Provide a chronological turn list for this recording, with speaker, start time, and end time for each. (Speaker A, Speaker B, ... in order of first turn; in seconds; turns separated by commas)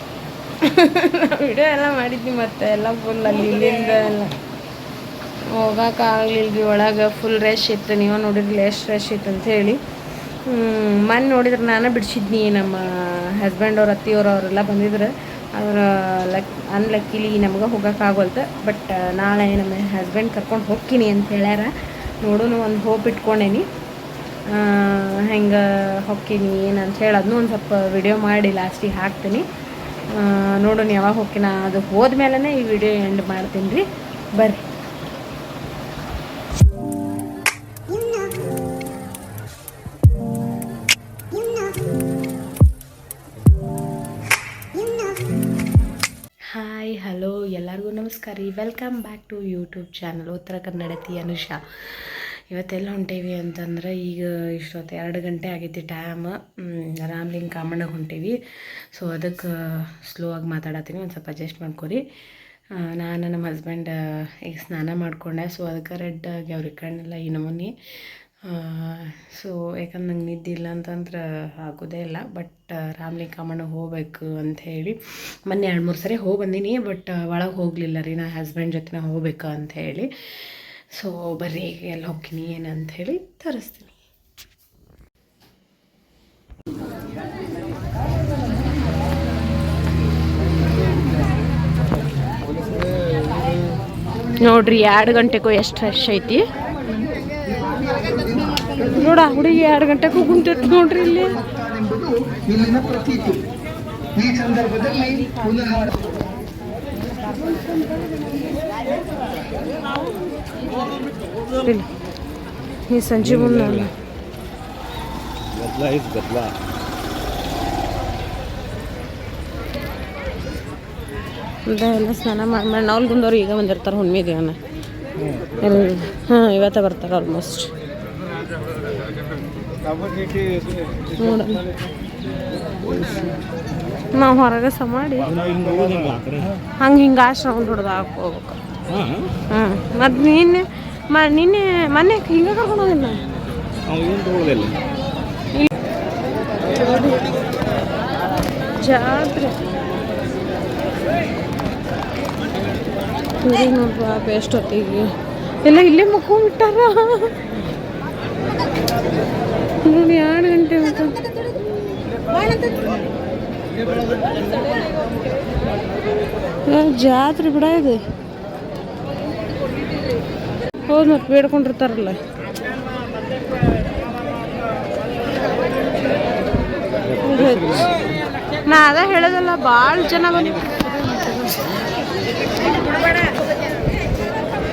Speaker A: 0.6-4.4, Speaker A: 5.5-9.8, Speaker A: 10.4-23.7, Speaker A: 24.4-29.5, Speaker A: 30.1-34.6, Speaker A: 46.5-58.4, Speaker A: 58.9-62.0, Speaker A: 62.7-67.8, Speaker A: 68.4-84.0, Speaker A: 94.4-96.5, Speaker A: 98.8-101.5, Speaker A: 104.7-105.9, Speaker A: 111.6-111.9, Speaker A: 112.9-113.9, Speaker B: 113.2-113.9, Speaker B: 115.5-116.5, Speaker A: 121.7-124.6, Speaker A: 125.6-127.7, Speaker A: 131.2-131.6, Speaker A: 134.1-135.3, Speaker B: 135.2-136.6, Speaker A: 136.8-138.6, Speaker B: 138.9-139.3, Speaker A: 139.5-143.2, Speaker B: 143.8-144.8, Speaker A: 146.6-147.3, Speaker A: 148.8-149.6, Speaker A: 153.4-157.4, Speaker A: 159.8-161.2, Speaker A: 166.6-168.0, Speaker A: 170.9-172.2, Speaker A: 177.2-177.9, Speaker B: 177.3-177.9, Speaker A: 178.7-181.7